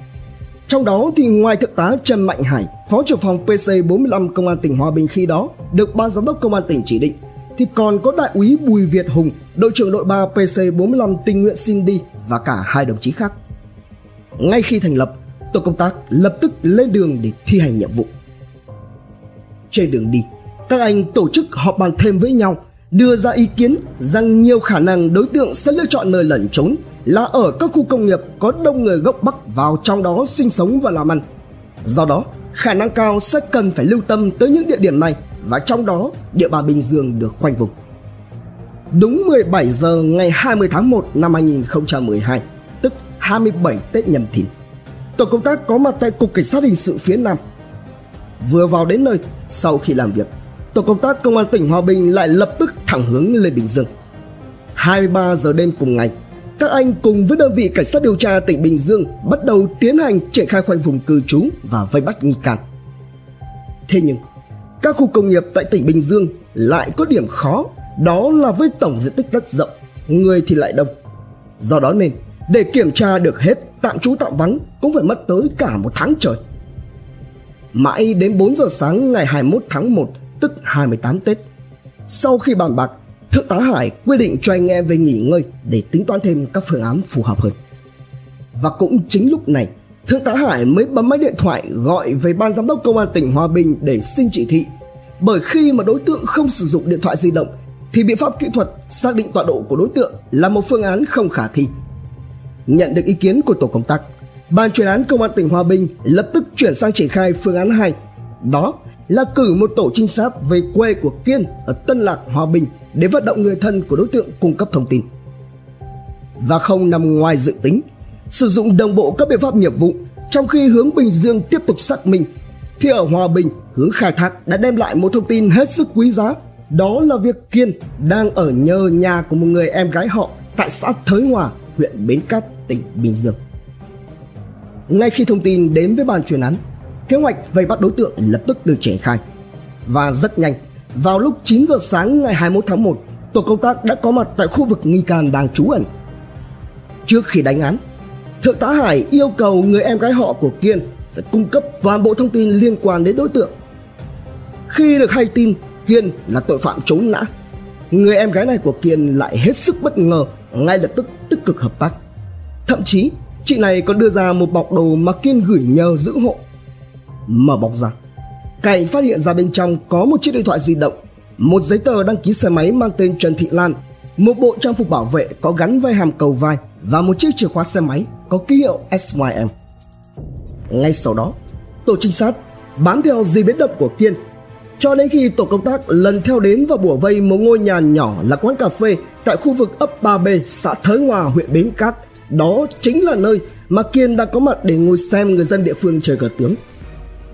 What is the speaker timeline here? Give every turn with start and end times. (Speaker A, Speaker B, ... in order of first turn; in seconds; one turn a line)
Speaker A: 0.7-13.3
Speaker A: 14.4-18.1
Speaker A: 19.7-31.2
Speaker A: 31.8-37.7
Speaker A: 38.9-44.5
Speaker A: 45.2-47.4
Speaker A: 48.4-53.9
Speaker A: 54.8-62.6
Speaker A: 63.9-64.2
Speaker A: 64.8-70.9
Speaker A: 71.6-76.4
Speaker A: 77.7-81.4
Speaker A: 82.1-87.5
Speaker A: 88.5-94.7
Speaker A: 95.2-101.7
Speaker A: 102.7-115.0
Speaker A: 116.4-122.3
Speaker A: 122.8-133.3
Speaker A: 134.9-139.2
Speaker A: 139.8-145.9
Speaker A: 147.1-147.8
Speaker A: 148.4-153.5
Speaker A: 154.7-157.3
Speaker A: 157.9-162.0
Speaker A: 162.7-166.4
Speaker A: 167.3-167.9
Speaker A: 168.6-179.5
Speaker A: 180.7-184.2
Speaker A: 184.8-196.6